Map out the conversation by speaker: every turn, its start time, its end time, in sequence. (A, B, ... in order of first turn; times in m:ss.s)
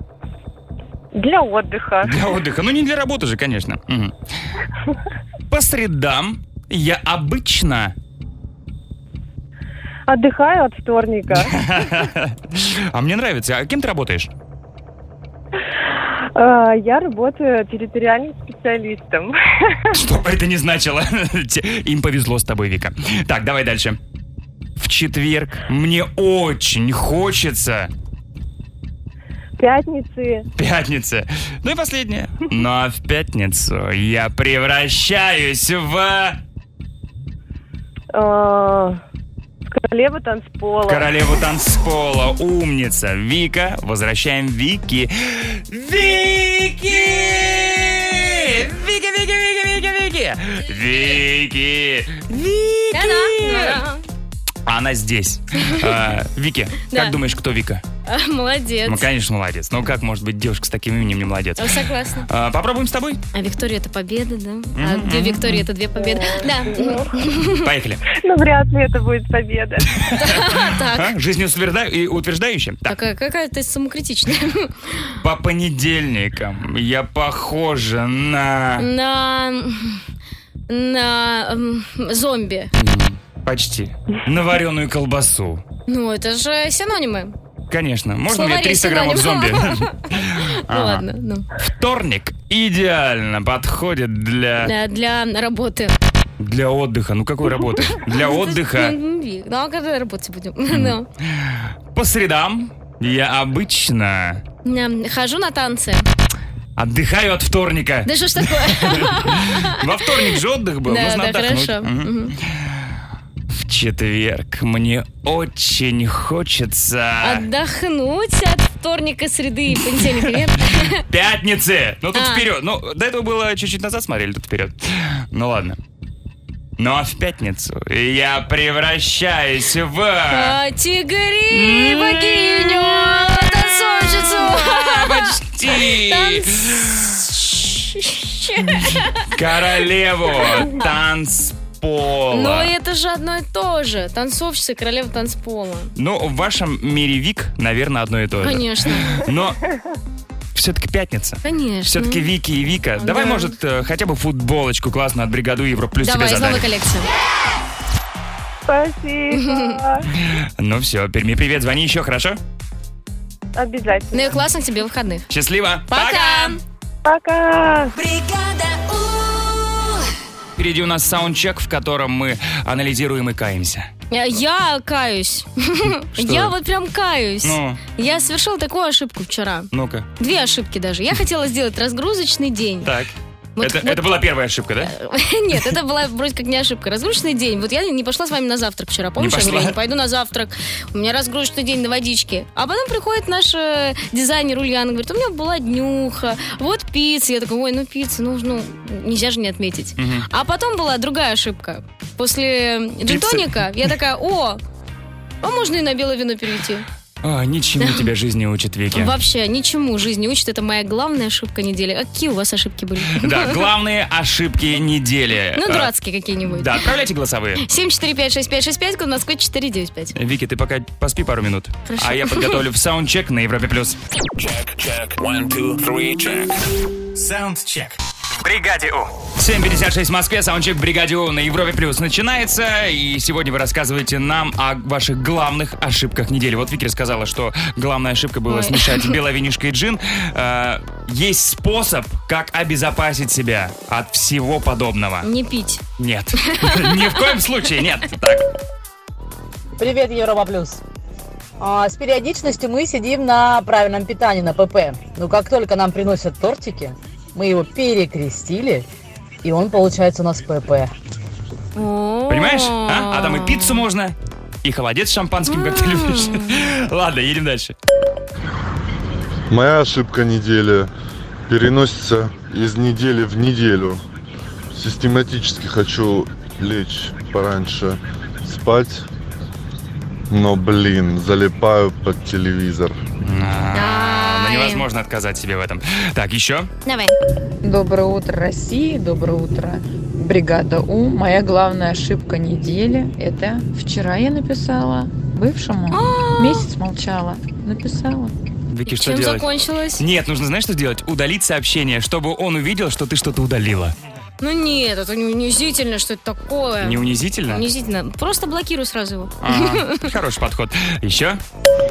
0:01.1-0:02.2 A
0:02.0-0:04.2 B
0:05.5-0:07.9 B
0:10.1-0:11.6 A
0:11.4-0:14.3 B
0:16.3-0:19.9 A
0:19.9-0:24.0 B
0:24.8-0:27.9 B
0:29.6-0:30.4 A
0:30.5-0:36.4 B
0:38.1-0:39.0 A
0:39.7-0:41.1 A
0:40.9-0:53.8 B
0:52.9-0:54.0 C
0:54.6-0:57.8 B
0:58.0-0:59.0 C
0:58.8-1:01.7 B
1:01.6-1:02.3 C
1:02.3-1:03.2 B
1:03.3-1:07.7 C
1:04.8-1:05.6 B
1:06.0-1:07.1 A
1:07.5-1:08.0 B
1:08.1-1:09.9 A
1:10.0-1:12.9 B
1:10.1-1:11.1 C
1:12.9-1:15.1 C
1:15.2-1:18.9 B
1:18.8-1:20.0 C
1:20.7-1:22.7 C
1:22.8-1:25.6 B
1:25.9-1:27.3 C
1:27.7-1:31.0 B
1:28.3-1:31.5 C
1:31.6-1:34.7 B
1:34.6-1:35.9 C
1:36.4-1:38.9 B
1:38.1-1:41.1 C
1:40.7-1:44.4 B
1:44.6-1:46.1 C
1:46.8-1:52.9 B
1:48.0-1:50.2 C
1:50.8-1:52.3 C
1:53.5-1:57.4 B
1:57.2-2:01.0 C
2:00.0-2:00.3 B
2:01.0-2:05.8 B
2:02.1-2:02.4 C
2:06.8-2:10.6 B
2:10.3-2:19.3 C
2:11.5-2:17.5 B
2:18.6-2:22.7 B
2:20.4-2:20.8 C
2:22.3-2:25.9 C
2:26.0-2:29.6 B
2:28.4-2:29.2 C
2:30.5-2:36.7 B
2:31.4-2:32.3 C
2:33.0-2:33.5 C
2:36.0-2:37.1 C
2:38.6-2:40.1 A
2:39.3-2:39.8 C
2:40.2-2:42.4 B
2:43.6-2:44.4 A
2:44.1-2:45.3 C
2:45.3-2:46.6 B
2:45.9-2:46.6 C
2:47.0-2:47.9 A
2:47.9-2:50.1 D
2:50.6-2:53.9 B
2:54.1-3:02.9 C
2:56.2-2:56.5 B
2:57.4-2:57.8 B
2:59.7-3:00.1 B
3:02.8-3:04.9 B
3:03.6-3:04.1 C
3:04.8-3:24.6 C
3:09.2-3:09.7 B
3:20.0-3:20.3 B
3:23.1-3:23.7 B
3:25.4-3:26.8 C
3:27.2-3:29.1 B
3:28.9-3:33.6 C
3:33.2-3:35.9 B
3:35.6-3:36.8 C
3:36.5-3:37.6 B
3:37.6-3:40.1 C
3:40.1-3:44.0 B
3:41.9-3:42.6 C
3:44.4-3:46.5 E
3:47.1-3:49.1 F
3:49.4-4:05.3 B
3:58.5-3:59.2 C
4:05.2-4:05.8 C
4:06.0-4:08.4 B
4:06.5-4:07.2 C
4:09.8-4:10.8 G
4:11.6-4:18.8 G
4:19.4-4:20.9 G
4:21.8-4:23.8 C
4:22.3-4:27.7 B
4:25.5-4:26.6 C
4:29.5-4:30.9 H
4:31.5-4:34.0 H
4:34.7-4:39.1 H
4:40.3-4:43.0 H
4:43.2-4:46.7 B
4:43.7-4:44.8 C
4:46.8-4:47.2 C
4:47.6-4:58.3 I
4:55.9-4:56.7 C
4:58.7-4:59.4 B
4:58.9-5:00.0 C
5:00.0-5:03.9 B
5:04.4-5:10.0 C
5:06.8-5:07.7 B
5:09.4-5:11.4 B